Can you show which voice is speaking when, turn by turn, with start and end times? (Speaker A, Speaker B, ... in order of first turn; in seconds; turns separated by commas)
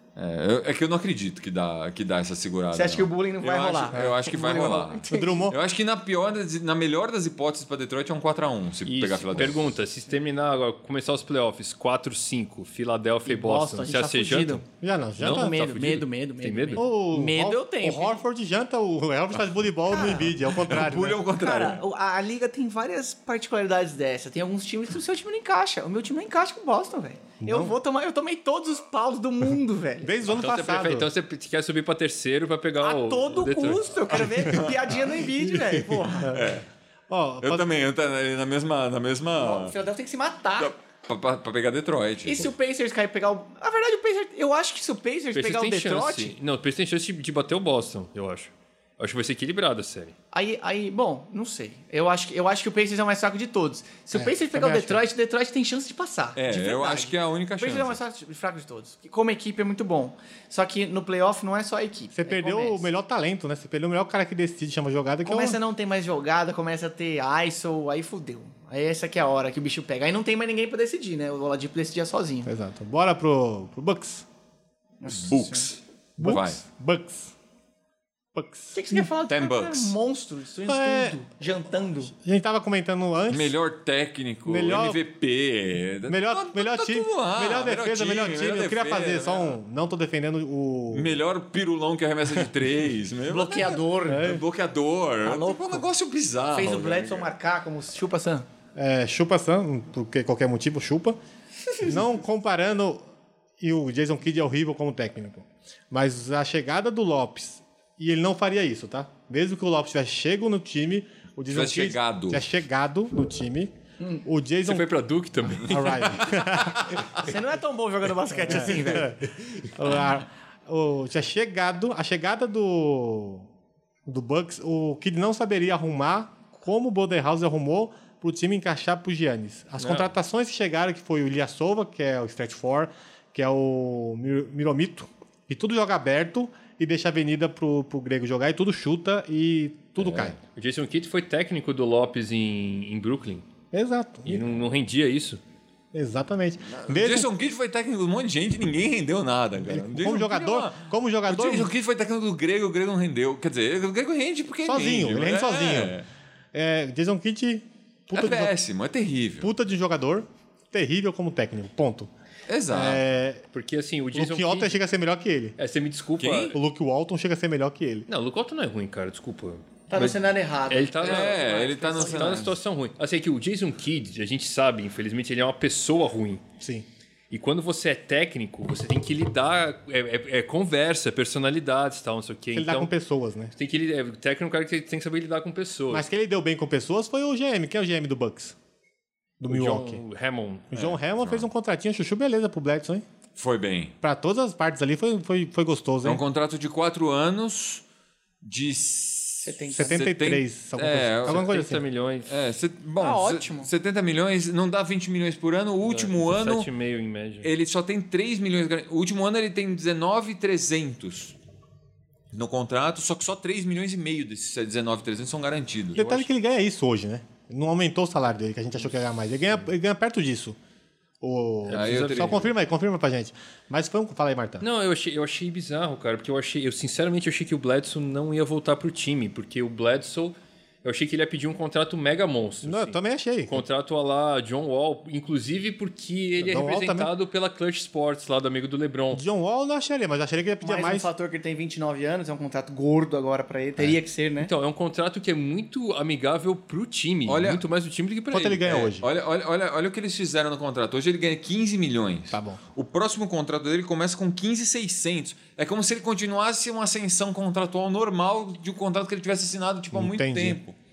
Speaker A: 0.1-9.7, Speaker B: 2.7-5.5, Speaker C: 3.9-5.5, Speaker D: 8.8-14.6, Speaker B: 13.2-14.6, Speaker C: 14.8-15.5, Speaker D: 15.2-16.8, Speaker B: 15.2-18.2, Speaker C: 16.8-21.2, Speaker B: 19.9-20.3, Speaker A: 20.4-21.8, Speaker B: 21.3-30.1, Speaker C: 27.4-27.7, Speaker C: 30.0-31.1, Speaker D: 30.3-34.0, Speaker B: 32.8-36.4, Speaker C: 36.2-36.5, Speaker A: 36.3-36.6, Speaker C: 37.1-37.7, Speaker A: 37.4-39.7, Speaker B: 39.4-40.7, Speaker A: 40.6-42.5, Speaker B: 42.2-46.3, Speaker D: 45.3-50.1, Speaker B: 50.3-62.9, Speaker C: 54.1-55.0, Speaker A: 56.4-58.0, Speaker C: 62.1-65.6, Speaker B: 65.2-72.5, Speaker C: 72.5-74.2, Speaker B: 75.0-75.7, Speaker A: 75.1-76.6, Speaker C: 76.2-77.3, Speaker C: 78.3-79.1, Speaker B: 78.7-82.1, Speaker A: 79.3-79.9, Speaker C: 80.7-81.2, Speaker C: 82.1-83.5, Speaker A: 83.3-89.6, Speaker C: 84.5-85.0, Speaker C: 86.1-91.2, Speaker A: 90.9-97.3, Speaker B: 93.3-94.4, Speaker C: 94.1-94.4, Speaker B: 95.2-95.9, Speaker B: 96.5-98.5, Speaker C: 98.7-101.2, Speaker C: 101.8-103.0, Speaker C: 103.6-113.7, Speaker A: 111.5-112.5, Speaker C: 114.2-114.9, Speaker D: 114.6-116.4, Speaker C: 115.6-117.0, Speaker A: 116.4-117.1, Speaker B: 117.1-119.2, Speaker C: 118.4-123.5, Speaker C: 124.1-140.4, Speaker D: 129.8-130.1, Speaker A: 140.0-140.3, Speaker D: 140.5-143.4, Speaker C: 143.7-144.4, Speaker D: 144.2-145.4, Speaker C: 145.9-147.3, Speaker A: 146.7-156.1, Speaker C: 149.7-151.7, Speaker C: 154.6-155.9, Speaker C: 156.5-158.5, Speaker A: 158.1-159.5, Speaker C: 159.4-162.1, Speaker A: 162.5-163.0, Speaker C: 162.7-163.4, Speaker D: 163.5-164.8, Speaker C: 164.1-165.6, Speaker D: 165.6-166.6, Speaker A: 166.2-166.6, Speaker C: 166.5-168.1, Speaker D: 168.1-176.4, Speaker B: 169.9-172.4, Speaker A: 171.0-172.6, Speaker D: 177.3-182.9, Speaker C: 182.5-183.5, Speaker D: 183.6-186.1, Speaker C: 185.9-188.5, Speaker C: 189.4-190.0, Speaker D: 189.5-190.7, Speaker C: 190.7-193.0, Speaker A: 190.7-191.5, Speaker A: 193.3-193.9, Speaker C: 194.0-196.2, Speaker A: 196.0-197.8, Speaker A: 198.4-201.5, Speaker B: 199.4-200.1, Speaker C: 199.7-201.8, Speaker D: 201.2-202.3, Speaker A: 202.2-206.7, Speaker B: 203.0-203.7, Speaker D: 205.8-207.5, Speaker A: 207.4-211.4, Speaker A: 212.3-216.3, Speaker C: 215.9-220.6, Speaker C: 221.2-224.6, Speaker D: 221.7-222.5, Speaker A: 221.7-222.5, Speaker D: 224.6-239.2, Speaker C: 232.6-233.6, Speaker C: 236.4-237.1, Speaker C: 239.1-241.1, Speaker B: 240.6-244.5, Speaker D: 244.4-248.7, Speaker A: 247.2-247.7, Speaker C: 248.3-249.0, Speaker A: 248.4-260.8, Speaker C: 252.3-252.6, Speaker C: 259.9-260.6